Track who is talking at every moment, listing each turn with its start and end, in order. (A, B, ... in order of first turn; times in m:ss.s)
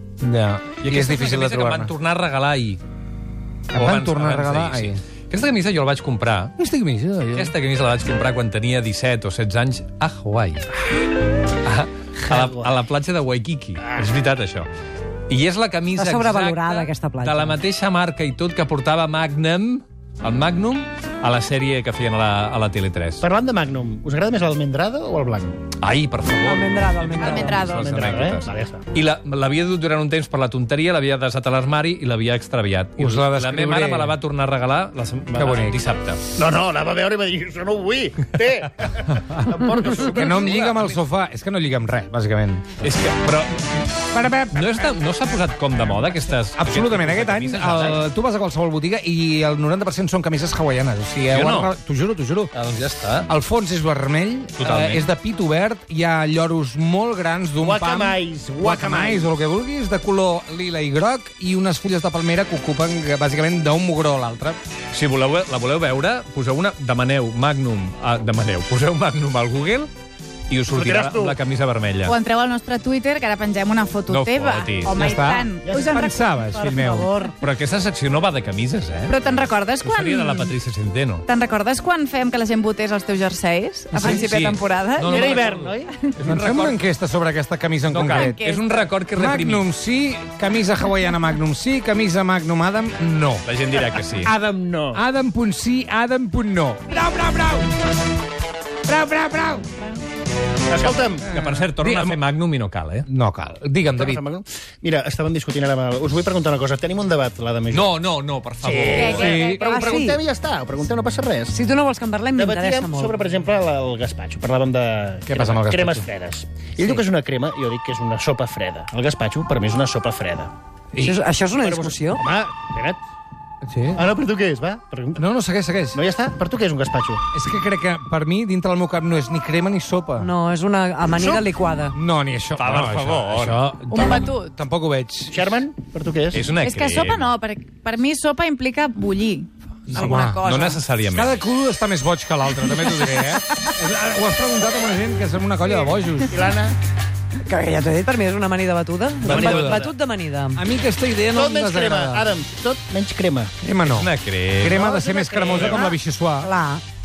0:00.2-0:01.9 A
0:00.8-0:02.8 B
0:03.7-0:05.0 A
0:03.7-0:06.6 B
0:06.6-0:07.5 A
0:07.3-0:10.7 B
0:11.6-0:14.7 B
0:12.2-0:12.8 C
0:13.8-0:14.1 C
0:15.3-0:23.2 B
0:15.9-0:17.6 D
0:23.2-0:25.6 C
0:25.8-0:36.3 B
0:26.4-0:27.8 D
0:27.2-0:27.9 E
0:27.3-0:28.8 C
0:33.0-0:34.2 A
0:35.3-0:35.8 A
0:36.3-0:40.8 C
0:40.1-0:42.8 A
0:40.4-0:41.0 B
0:42.8-0:43.9 B
0:44.1-0:44.9 A
0:44.5-0:48.0 B
0:46.6-0:52.5 A
0:51.3-0:51.7 B
0:52.5-0:53.3 B
0:53.3-1:04.6 A
0:54.6-0:55.1 B
0:57.6-0:59.3 C
1:04.9-1:09.9 B
1:10.5-1:12.2 B
1:10.7-1:11.4 C
1:12.0-1:16.3 E
1:14.1-1:15.0 B
1:14.9-1:17.1 A
1:15.6-1:16.0 C
1:16.6-1:17.3 D
1:16.8-1:17.3 C
1:17.4-1:19.3 B
1:19.1-1:20.5 E
1:19.8-1:21.3 B
1:21.2-1:26.1 E
1:23.9-1:24.3 A
1:24.0-1:26.8 B
1:25.1-1:25.9 C
1:26.2-1:28.4 A
1:27.9-1:29.6 B
1:28.0-1:28.9 E
1:29.2-1:33.4 A
1:33.4-1:34.3 B
1:34.2-1:37.7 A
1:34.4-1:35.0 C
1:38.8-1:39.7 A
1:40.7-1:41.3 C
1:41.2-1:43.1 B
1:41.3-1:42.2 A
1:43.1-1:44.2 A
1:43.9-1:48.0 C
1:47.7-1:49.5 B
1:48.6-1:51.6 C
1:48.9-1:49.8 E
1:49.1-1:49.6 A
1:49.6-1:50.2 D
1:51.5-1:53.2 D
1:52.4-2:00.5 C
1:55.2-1:56.0 A
2:00.9-2:01.2 A
2:01.0-2:02.2 D
2:01.6-2:03.0 C
2:03.6-2:04.0 A
2:03.9-2:05.2 C
2:05.2-2:06.0 A
2:05.9-2:07.2 C
2:07.3-2:10.3 A
2:10.2-2:11.9 D
2:11.2-2:11.5 C
2:11.9-2:15.5 A
2:12.6-2:13.6 B
2:13.9-2:14.5 E
2:15.3-2:16.5 C
2:16.3-2:17.3 B
2:16.6-2:20.8 E
2:19.9-2:20.4 A
2:20.0-2:21.4 B
2:21.0-2:26.4 A
2:26.3-2:26.8 C
2:27.4-2:30.6 D
2:29.2-2:29.9 C
2:29.3-2:29.9 A
2:29.3-2:29.8 B
2:30.5-2:32.3 A
2:31.3-2:33.5 C
2:33.6-2:34.1 A
2:33.9-2:34.8 B
2:34.6-2:36.5 A
2:34.7-2:36.0 C
2:36.4-2:36.8 D